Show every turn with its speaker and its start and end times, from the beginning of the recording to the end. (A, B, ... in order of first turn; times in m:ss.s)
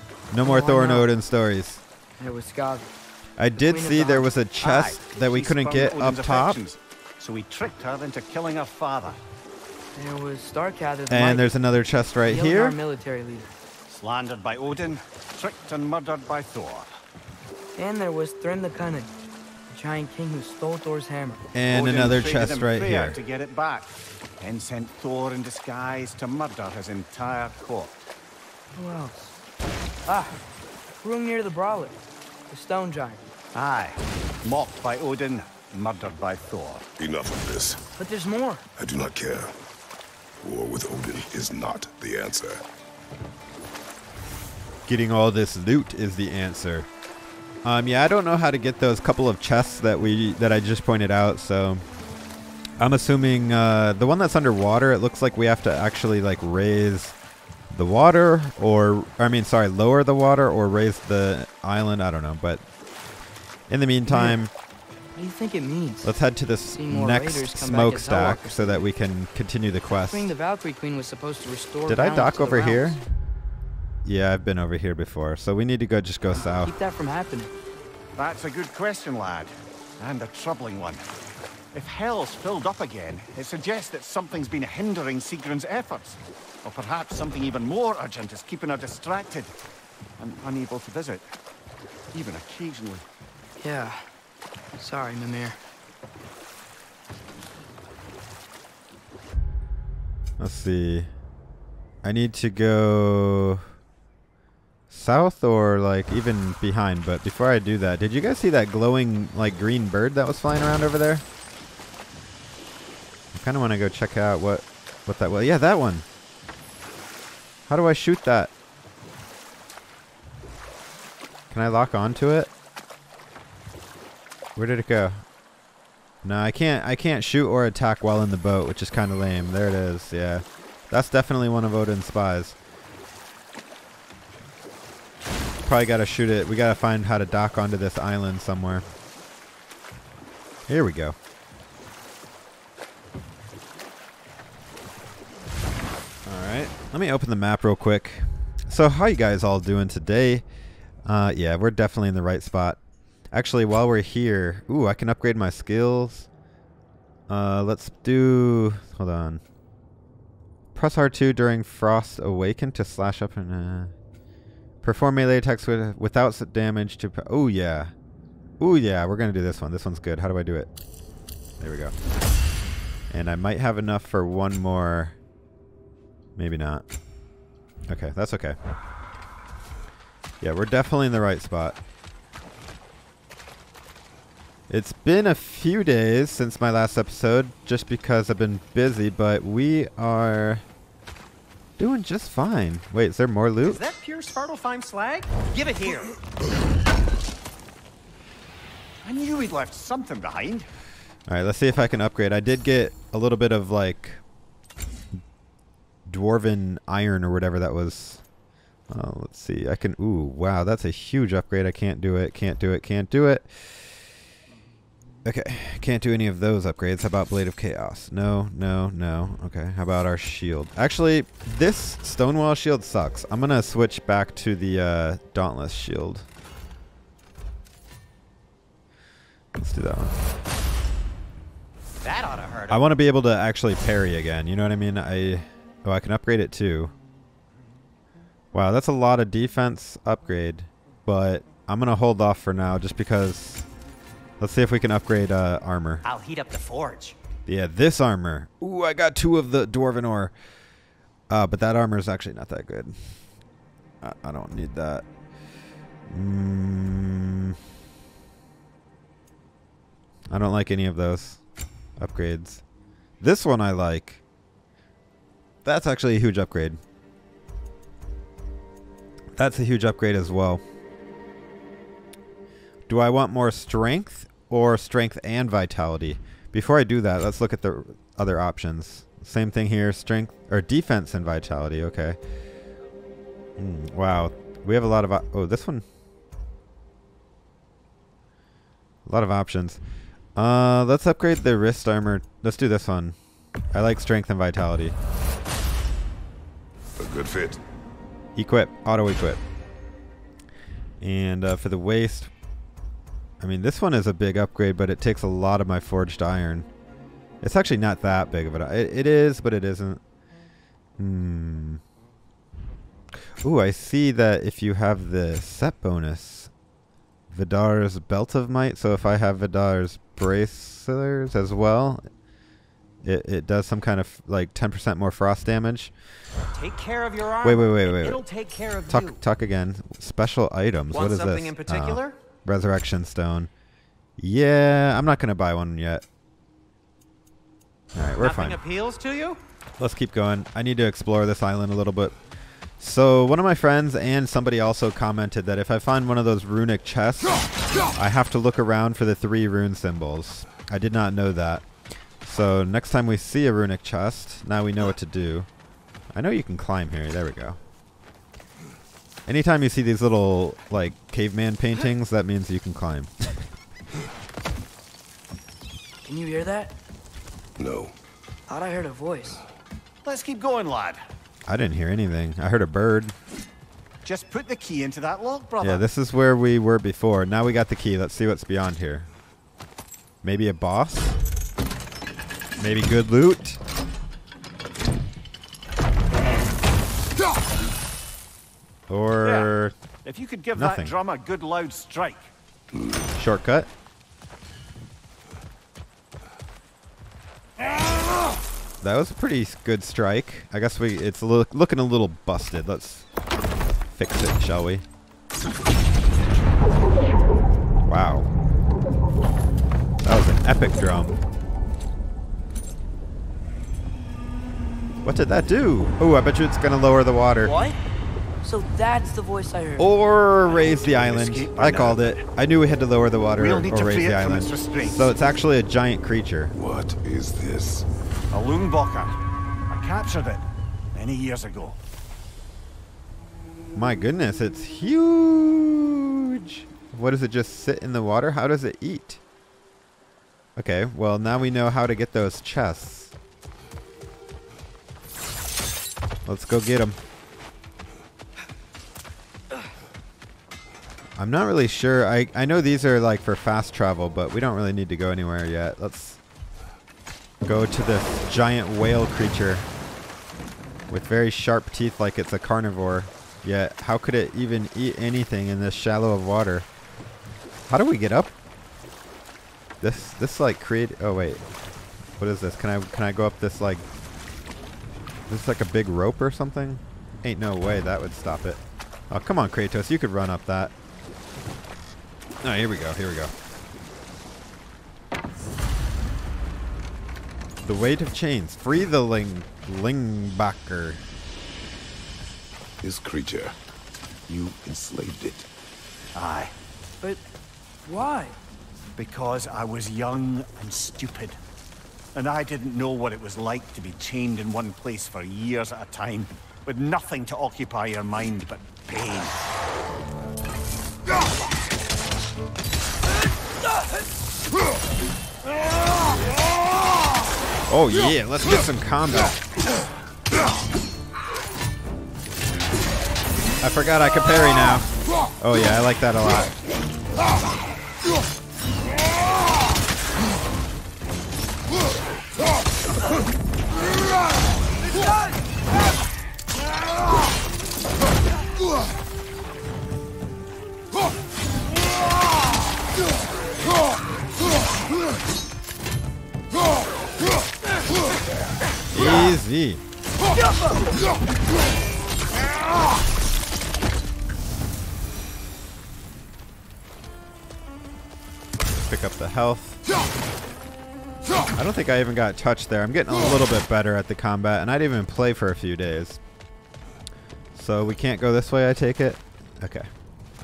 0:00.3-0:01.8 A
0:00.4-0:01.1 B
0:02.2-0:02.9 B
0:03.4-0:06.6 A
0:03.5-0:04.3 B
0:04.6-0:09.2 C
0:09.9-0:11.5 B
0:11.1-0:12.8 A
0:12.3-0:13.5 B
0:13.9-0:16.9 C
0:17.8-0:19.1 B
0:19.7-0:21.4 B
0:21.5-0:23.2 A
0:21.7-0:28.0 C
0:28.7-0:29.3 B
0:30.0-0:30.4 B
0:31.0-0:32.0 B
0:32.5-0:33.2 B
0:33.5-0:36.9 C
0:37.0-0:37.8 D
0:38.0-0:38.6 B
0:38.8-0:39.6 D
0:40.4-0:42.6 D
0:44.8-0:46.9 A
0:47.6-0:51.8 A
0:52.8-0:57.1 A
0:57.7-1:02.6 A
1:03.7-1:04.5 A
1:04.1-1:04.4 B
1:05.2-1:06.1 B
1:06.0-1:10.3 A
1:06.7-1:08.7 B
1:09.9-1:13.0 B
1:11.9-1:13.0 A
1:14.0-1:16.7 A
1:16.3-1:17.5 B
1:18.2-1:21.1 C
1:21.7-1:29.5 C
1:30.2-1:31.3 C
1:32.1-1:33.0 C
1:33.6-1:34.0 B
1:34.8-1:35.6 B
1:40.4-1:41.1 A
1:42.0-1:43.7 A
1:44.9-1:51.2 A
1:53.3-1:56.0 A
1:57.7-1:58.5 A
2:01.5-2:02.5 A
2:04.6-2:05.2 A
2:06.2-2:12.6 A
2:15.6-2:18.8 A
2:20.7-2:21.2 A
2:26.2-2:30.4 A
2:31.0-2:32.8 A
2:33.3-2:36.3 A
2:37.3-2:39.4 A
2:40.7-2:43.9 A
2:44.8-2:47.9 A
2:48.6-2:50.7 A
2:51.6-2:51.9 A
2:53.1-2:55.2 A
2:56.4-2:56.8 A
2:57.9-2:58.6 A
3:00.4-3:01.8 A
3:04.7-3:10.6 A
3:11.8-3:13.8 A
3:13.6-3:16.2 E
3:19.0-3:20.7 C
3:21.3-3:24.2 A
3:26.1-3:28.2 A
3:28.9-3:33.9 A
3:35.2-3:46.3 A
3:49.6-3:50.2 A
3:52.0-3:52.8 E
3:52.7-3:56.9 A
3:58.5-4:03.7 A
4:04.4-4:06.0 A
4:06.0-4:07.2 E
4:07.5-4:10.3 A
4:11.3-4:13.0 A
4:14.0-4:15.0 A
4:16.1-4:17.6 A
4:20.3-4:21.4 A
4:22.0-4:22.6 A
4:23.2-4:24.2 A
4:25.6-4:26.8 A
4:29.4-4:30.6 A
4:32.9-4:42.2 A
4:43.6-4:45.8 A
4:49.0-4:49.8 A
4:50.4-4:53.2 A
4:53.7-4:55.0 A
4:57.0-4:57.6 D
4:58.3-4:59.4 A
5:01.0-5:02.3 A
5:03.4-5:06.7 A
5:07.4-5:10.0 A
5:11.0-5:11.8 A
5:13.4-5:16.5 A
5:17.3-5:22.0 A
5:23.0-5:25.9 A
5:26.5-5:29.2 E
5:27.4-5:28.2 A
5:28.9-5:33.5 A
5:30.9-5:32.2 E
5:34.2-5:36.0 A
5:37.9-5:38.6 A
5:38.2-5:39.4 E
5:39.8-5:42.2 A
5:42.8-5:47.4 A
5:47.9-5:51.7 A
5:52.2-5:55.5 A
5:56.1-5:57.6 A
5:59.2-6:03.4 A
6:06.0-6:06.7 B
6:07.6-6:08.0 D
6:08.5-6:09.4 B
6:10.0-6:11.0 C
6:11.5-6:13.1 A
6:14.0-6:15.8 C
6:15.6-6:19.1 A
6:20.2-6:21.2 A
6:22.6-6:23.6 A
6:28.9-6:29.7 A
6:29.2-6:32.3 C
6:30.5-6:31.0 A
6:32.7-6:33.1 D
6:33.2-6:33.7 A
6:38.8-6:43.1 A
6:43.9-6:44.8 A
6:47.8-6:48.3 A
6:50.0-6:51.2 A
6:55.0-6:57.5 A
6:57.4-6:57.8 B
6:58.4-6:59.9 B
6:59.8-7:06.5 A
7:00.4-7:02.2 C
7:03.4-7:05.1 C
7:06.5-7:07.8 D
7:08.3-7:11.8 C
7:13.7-7:19.2 A
7:20.6-7:23.1 A
7:26.2-7:27.0 A
7:31.2-7:36.2 A
7:37.4-7:39.6 A
7:40.9-7:46.6 A
7:47.7-7:48.3 A
7:49.8-7:51.4 A
7:52.2-7:53.8 A
7:55.3-8:00.7 A
8:02.4-8:03.3 A
8:07.6-8:11.0 A
8:12.8-8:13.5 D
8:14.3-8:15.4 D
8:16.1-8:16.5 C
8:17.8-8:18.4 B
8:19.0-8:21.4 C
8:22.1-8:29.4 C
8:37.7-8:39.4 A
8:43.6-8:44.9 A
8:45.4-8:46.5 A
9:08.9-9:09.8 A
9:18.7-9:19.8 A
9:21.6-9:26.2 A
9:27.5-9:29.9 A